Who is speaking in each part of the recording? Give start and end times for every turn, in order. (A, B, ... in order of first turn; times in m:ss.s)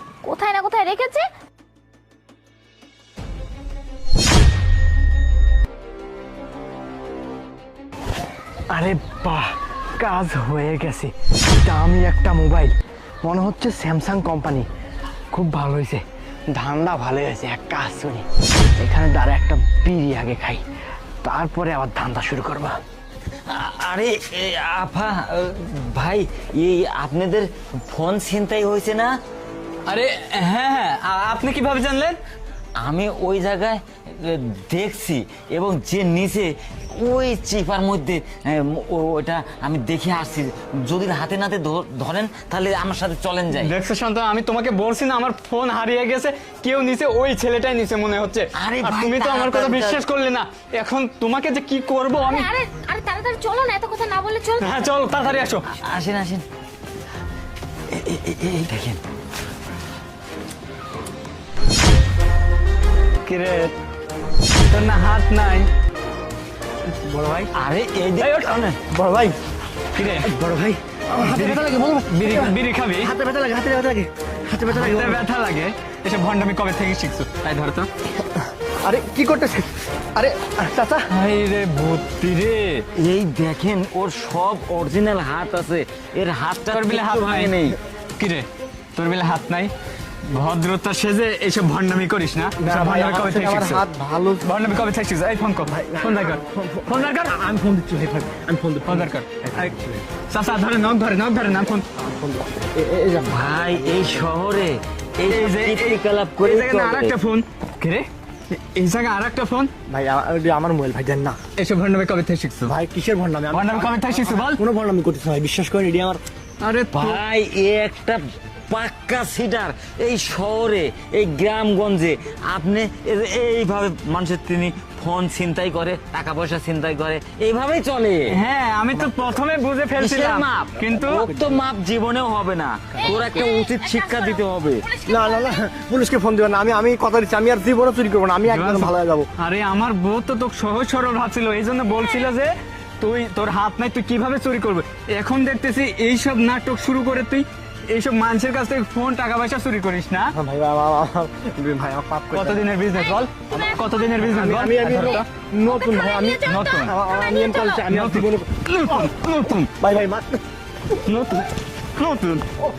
0:00.2-0:01.3 A
0:08.7-0:11.1 B
0:11.6-0:14.7 B
0:15.3-0:20.6 B
0:21.2-0:22.8 B
0:23.5-0:29.2 C
0:29.9-0:32.2 D
0:32.8-0:43.8 C
0:43.6-0:52.5 D
0:48.6-0:50.0 C
0:52.2-0:55.1 A
0:54.6-0:55.7 D
0:55.7-0:56.4 C
0:57.9-0:59.0 C
1:03.2-1:03.7 D
1:04.7-1:05.7 D
1:07.5-1:08.8 C
1:08.2-1:08.5 D
1:08.9-1:09.4 B
1:10.0-1:10.3 D
1:10.1-1:15.3 B
1:11.2-1:13.1 D
1:14.7-1:17.9 D
1:18.8-1:21.1 B
1:21.1-1:22.9 D
1:22.9-1:27.8 C
1:26.7-1:27.6 D
1:28.2-1:29.7 D
1:30.2-1:33.8 D
1:32.6-1:34.5 B
1:34.4-1:37.4 D
1:35.7-1:40.0 B
1:38.9-1:39.7 D
1:40.3-1:41.8 D
1:42.0-1:44.2 B
1:43.2-1:47.2 C
1:45.3-1:49.7 D
1:49.9-1:51.4 B
1:51.6-1:52.8 D
1:52.7-1:56.2 B
1:53.5-1:54.6 D
1:56.6-1:57.2 D
1:56.9-2:08.4 C
2:08.3-2:11.2 D
2:08.9-2:09.3 B
2:10.0-2:14.9 C
2:10.9-2:11.6 B
2:13.0-2:15.7 A
2:15.1-2:19.3 B
2:18.5-2:30.4 D
2:21.9-2:22.3 A
2:30.4-2:32.7 B
2:32.3-2:35.2 D
2:32.9-2:34.1 A
2:34.2-2:39.1 B
2:35.7-2:37.9 A
2:36.5-2:37.0 D
2:37.9-2:39.7 D
2:39.8-2:40.4 B
2:41.0-2:42.6 D